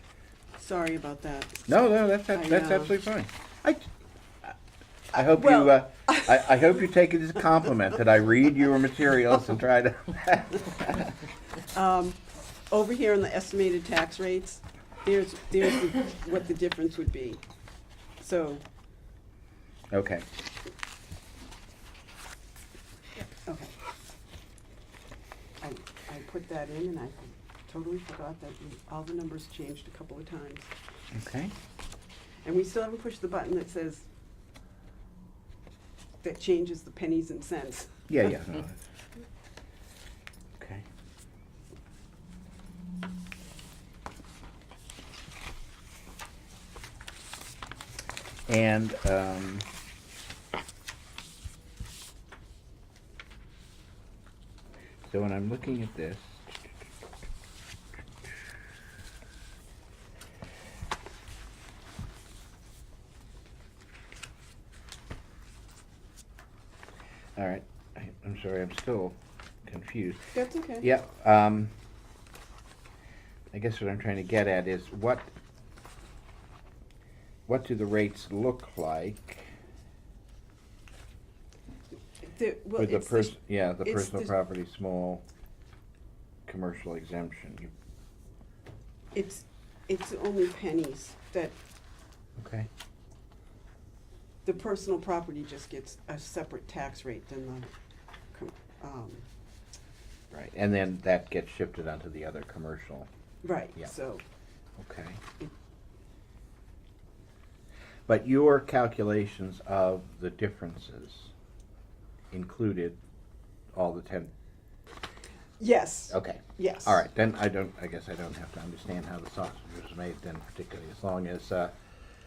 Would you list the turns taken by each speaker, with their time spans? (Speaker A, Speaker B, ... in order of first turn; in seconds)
Speaker A: 0.6-1.6, 2.3-2.9, 5.2-6.7, 11.7-17.4, 18.2-18.6, 23.2-23.7, 25.6-30.7, 32.5-34.1, 36.2-38.0, 70.3-70.9, 82.2-84.3, 89.1-91.6, 94.5-97.7, 98.3-99.3, 103.4-104.2, 115.6-117.0
Speaker B: 1.7-3.9, 5.1-11.1, 19.9-20.3, 31.1-31.5, 38.1-38.8, 40.6-40.8, 48.5-49.7, 55.1-56.7, 67.4-71.7, 73.5-75.3, 77.5-79.5, 82.8-85.2, 86.5-87.7, 92.4-92.7, 100.3-103.1, 104.8-105.2, 108.1-111.3, 112.3-113.0, 113.7-114.3, 116.1-121.7